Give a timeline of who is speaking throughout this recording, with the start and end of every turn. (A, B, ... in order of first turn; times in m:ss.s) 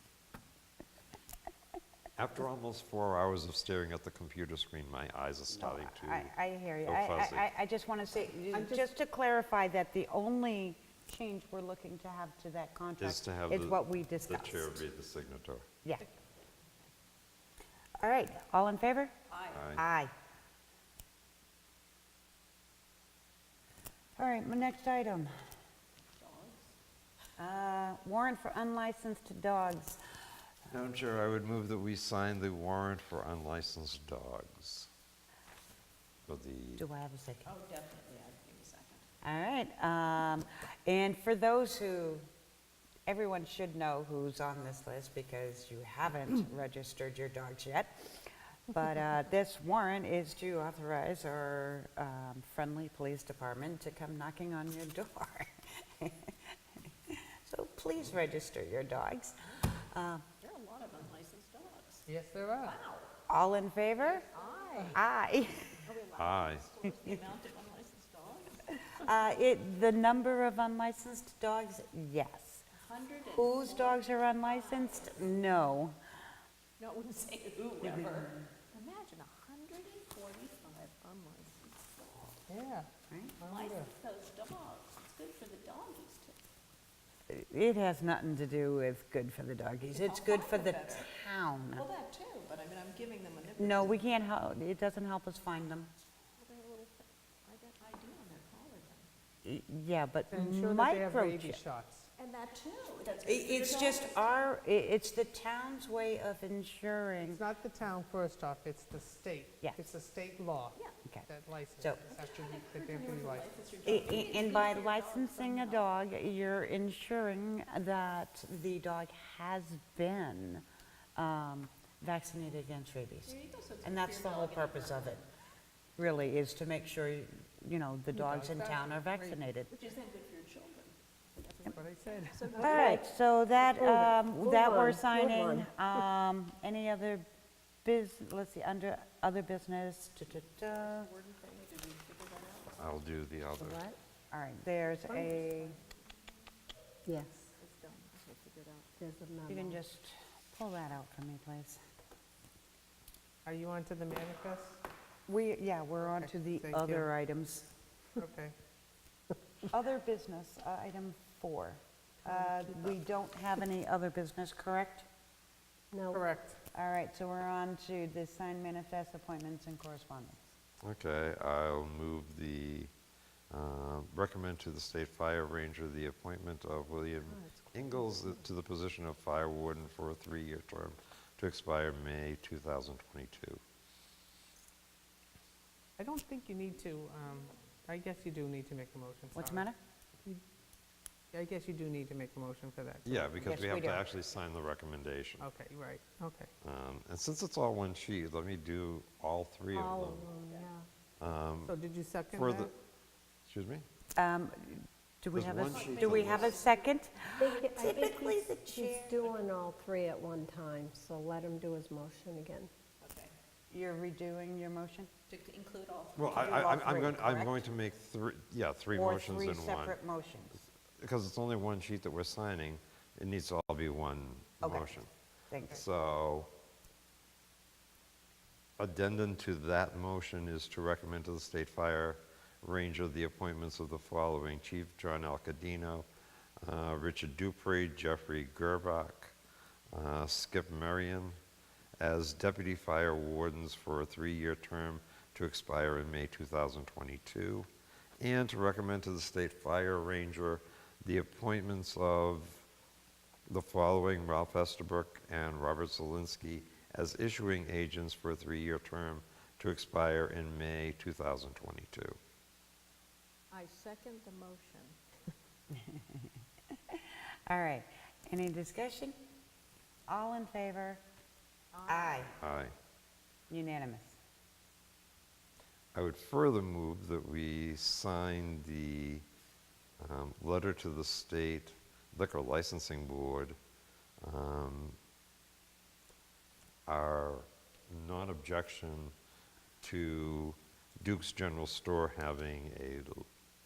0:02.2-0:06.3 A
0:05.5-0:14.8 B
0:06.9-0:07.5 A
0:08.5-0:08.8 C
0:13.0-0:15.7 A
0:18.0-0:19.1 B
0:19.3-0:19.6 D
0:19.5-0:19.8 A
0:19.8-0:20.1 B
0:24.2-0:25.3 B
0:26.2-0:26.7 D
0:27.4-0:30.0 B
0:30.7-0:34.9 A
0:36.3-0:36.8 A
0:36.8-0:37.5 B
0:37.4-0:39.0 D
0:39.2-0:42.2 B
0:43.1-0:48.2 B
0:48.7-0:56.3 B
0:57.1-1:00.2 B
1:00.4-1:02.1 D
1:02.1-1:02.8 C
1:02.6-1:03.2 D
1:03.3-1:04.2 B
1:04.0-1:05.0 D
1:04.9-1:05.8 B
1:05.9-1:09.1 D
1:06.2-1:06.6 A
1:09.0-1:12.6 B
1:12.7-1:15.2 D
1:13.2-1:16.0 B
1:16.8-1:22.4 D
1:17.8-1:18.4 B
1:22.5-1:23.9 C
1:23.1-1:23.4 B
1:23.4-1:26.4 D
1:27.3-1:31.8 B
1:29.9-1:31.1 D
1:31.7-1:34.0 D
1:33.6-1:35.9 B
1:36.4-1:39.1 D
1:39.4-1:41.6 B
1:40.3-1:42.1 C
1:42.2-1:44.4 D
1:43.2-1:47.4 B
1:47.2-1:53.5 C
1:52.1-1:55.9 D
1:53.8-2:00.6 B
2:01.2-2:05.2 B
2:03.3-2:05.2 D
2:06.0-2:09.7 B
2:08.1-2:09.4 C
2:09.7-2:13.0 D
2:11.7-2:12.8 C
2:12.6-2:13.0 E
2:12.6-2:17.3 B
2:13.7-2:15.7 E
2:17.8-2:21.1 B
2:20.6-2:22.8 D
2:22.8-2:23.8 A
2:23.6-2:24.0 E
2:24.3-2:25.8 B
2:25.1-2:25.9 D
2:27.0-2:27.5 E
2:27.6-2:28.9 D
2:29.0-2:29.8 E
2:29.5-2:31.8 B
2:33.4-2:34.8 C
2:35.3-2:37.7 B
2:36.2-2:37.1 C
2:38.2-2:38.5 C
2:39.7-2:45.1 B
2:42.2-2:42.9 C
2:45.9-2:46.2 E
2:46.1-2:46.6 C
2:46.7-2:50.4 B
2:50.8-2:52.9 A
2:53.5-3:03.6 A
2:57.3-2:58.2 E
3:06.0-3:09.7 C
3:09.4-3:09.8 B
3:11.3-3:13.4 C
3:13.1-3:15.5 A
3:13.4-3:14.0 B
3:15.4-3:16.5 C
3:16.6-3:20.3 A
3:19.7-3:20.8 E
3:21.2-3:21.7 A
3:21.6-3:22.7 C
3:22.3-3:22.7 A
3:23.5-3:23.8 A
3:24.2-3:29.2 B
3:25.3-3:26.6 A
3:25.7-3:26.9 D
3:27.4-3:32.7 E
3:33.0-3:33.3 D
3:33.7-3:35.1 B
3:35.3-3:36.5 D
3:36.2-3:40.0 A
3:36.2-3:37.7 B
3:38.9-3:40.6 B
3:41.0-3:45.1 A
3:44.6-3:45.0 B
3:45.5-3:45.8 B
3:45.6-3:46.5 A
3:48.8-3:56.1 A
3:56.6-3:59.4 A
3:59.9-4:01.4 A
4:02.0-4:07.7 A
4:08.2-4:12.6 A
4:13.5-4:22.2 A
4:23.5-4:25.0 D
4:25.9-4:26.1 B
4:26.9-4:29.2 B
4:30.1-4:31.0 B
4:31.7-4:32.4 D
4:31.9-4:32.3 B
4:32.4-4:32.7 A
4:33.5-4:34.2 B
4:35.9-4:39.2 A
4:40.0-4:43.6 A
4:44.2-4:45.0 A
4:46.9-4:49.1 A
4:49.8-4:53.3 A